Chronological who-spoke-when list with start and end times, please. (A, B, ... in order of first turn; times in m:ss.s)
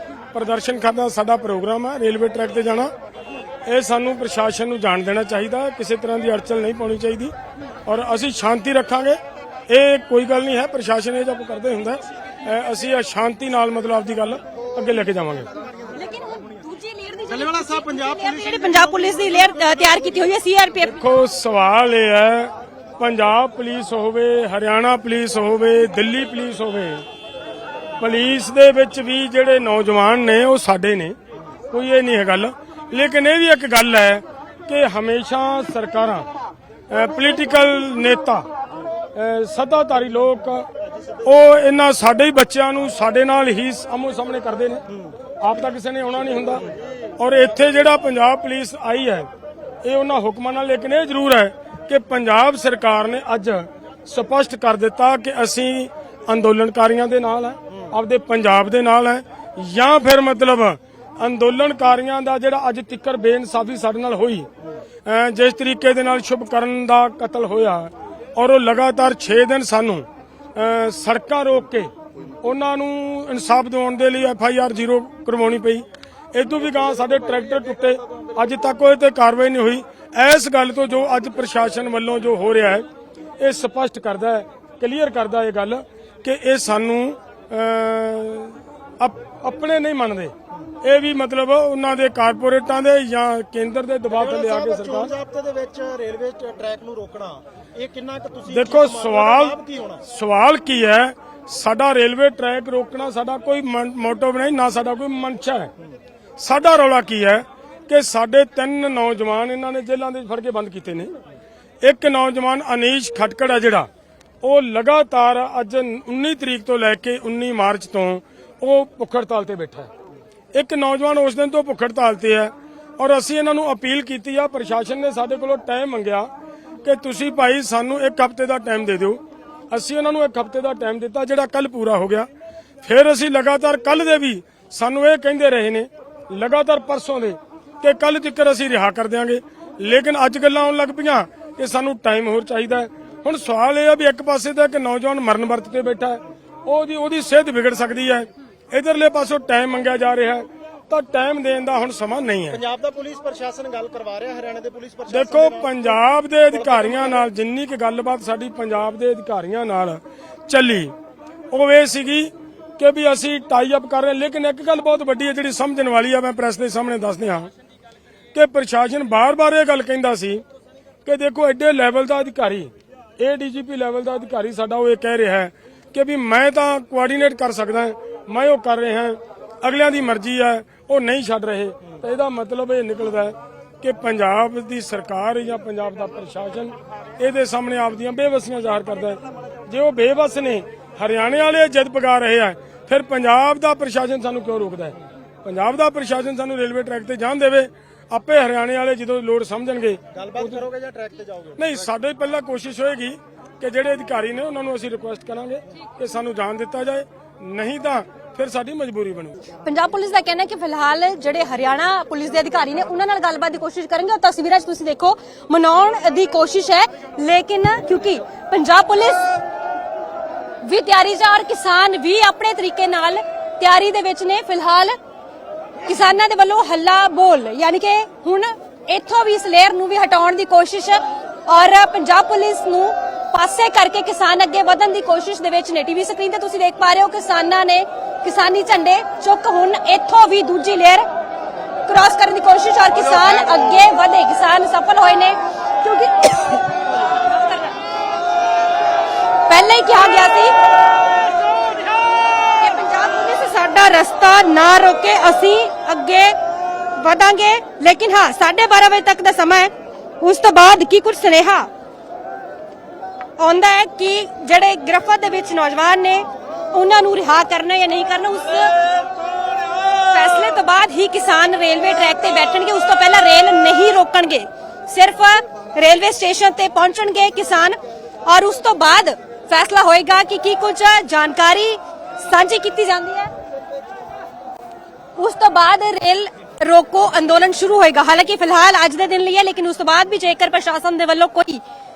0:00.3-0:02.9 A
0:03.6-0:07.3 A
0:07.8-0:15.5 A
0:15.9-0:21.0 B
0:17.3-0:19.2 C
0:20.8-0:27.0 A
0:28.0-0:31.2 A
0:31.7-0:36.3 A
0:36.9-0:38.4 A
0:39.1-0:40.7 A
0:41.2-0:44.8 A
0:45.4-0:46.6 A
0:47.2-0:49.3 A
0:49.8-1:04.5 A
1:05.0-1:22.8 A
1:23.4-1:35.1 A
1:34.1-1:40.0 C
1:38.5-1:45.7 A
1:46.4-1:51.1 A
1:51.8-1:53.9 A
1:54.4-1:59.9 A
2:00.5-2:06.3 A
2:06.8-2:09.2 A
2:09.7-2:12.3 A
2:12.8-2:32.6 A
2:32.5-2:37.2 C
2:35.1-2:40.9 A
2:41.5-2:47.5 A
2:48.3-2:50.4 A
2:51.0-3:20.6 A
3:20.1-3:21.7 C
3:21.6-3:29.5 A
3:29.6-3:39.4 B
3:40.6-3:45.0 B
3:45.8-4:01.1 B
4:01.9-4:07.8 B
4:09.5-4:10.6 B
4:12.6-4:16.4 B
4:16.9-4:21.7 B
4:23.4-4:28.8 B
4:30.0-4:43.3 B
4:45.2-4:51.6 B